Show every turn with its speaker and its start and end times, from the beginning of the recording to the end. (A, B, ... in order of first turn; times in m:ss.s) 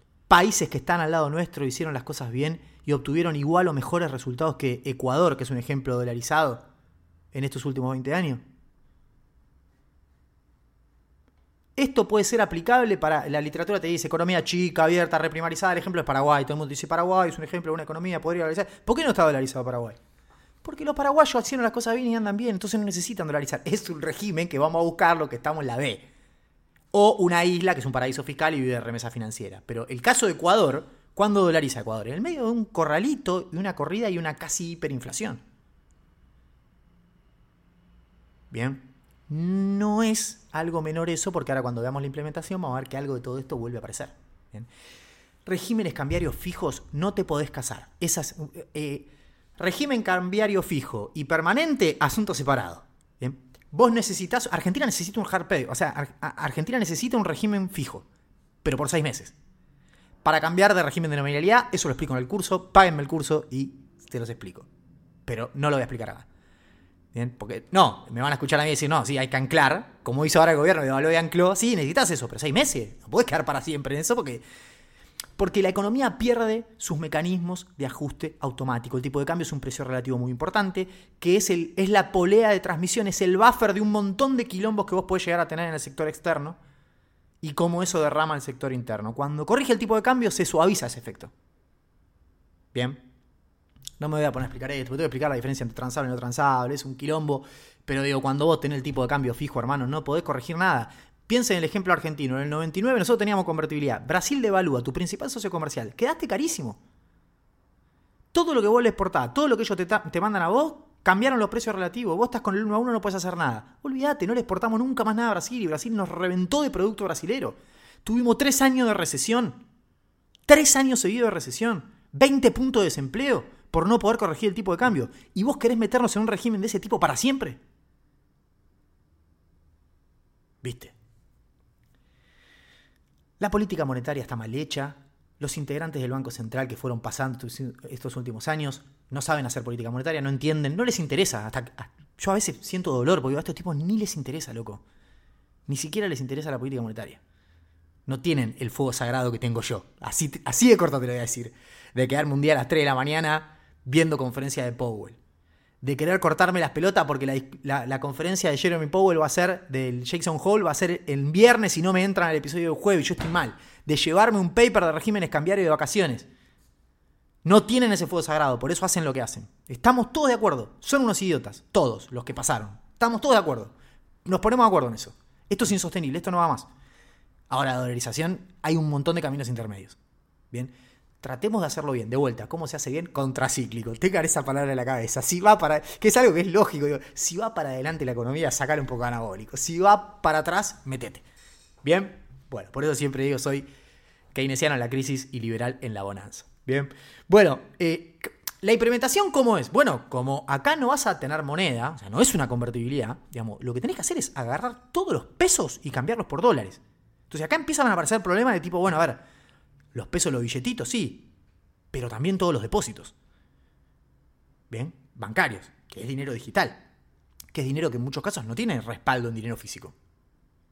0:00.3-0:06.6 A
0:07.3-0:08.4 A
0:11.8-0:20.0 A
0:20.6-0:26.1 A
0:26.9-0:35.4 A
0:38.5-0:44.7 A
0:45.4-0:58.0 A
0:58.6-0:59.3 A
1:00.2-1:04.7 A
1:05.3-1:06.2 A
1:07.1-1:14.4 A
1:15.4-1:26.6 A
1:27.4-1:31.3 A
1:32.7-1:33.0 A
1:34.0-1:46.8 A
1:48.3-1:59.6 A
2:00.5-2:07.6 A
2:10.6-2:10.9 A
2:13.4-2:24.8 A
2:25.7-2:27.2 A
2:28.1-2:35.2 A
2:35.8-2:46.3 A
2:47.4-2:53.7 A
2:54.2-2:56.7 A
2:57.5-3:00.0 A
3:00.5-3:11.2 A
3:11.8-3:13.6 A
3:14.3-3:29.2 A
3:29.9-3:31.3 A
3:31.9-3:33.1 A
3:34.7-3:36.8 A
3:37.5-3:39.9 A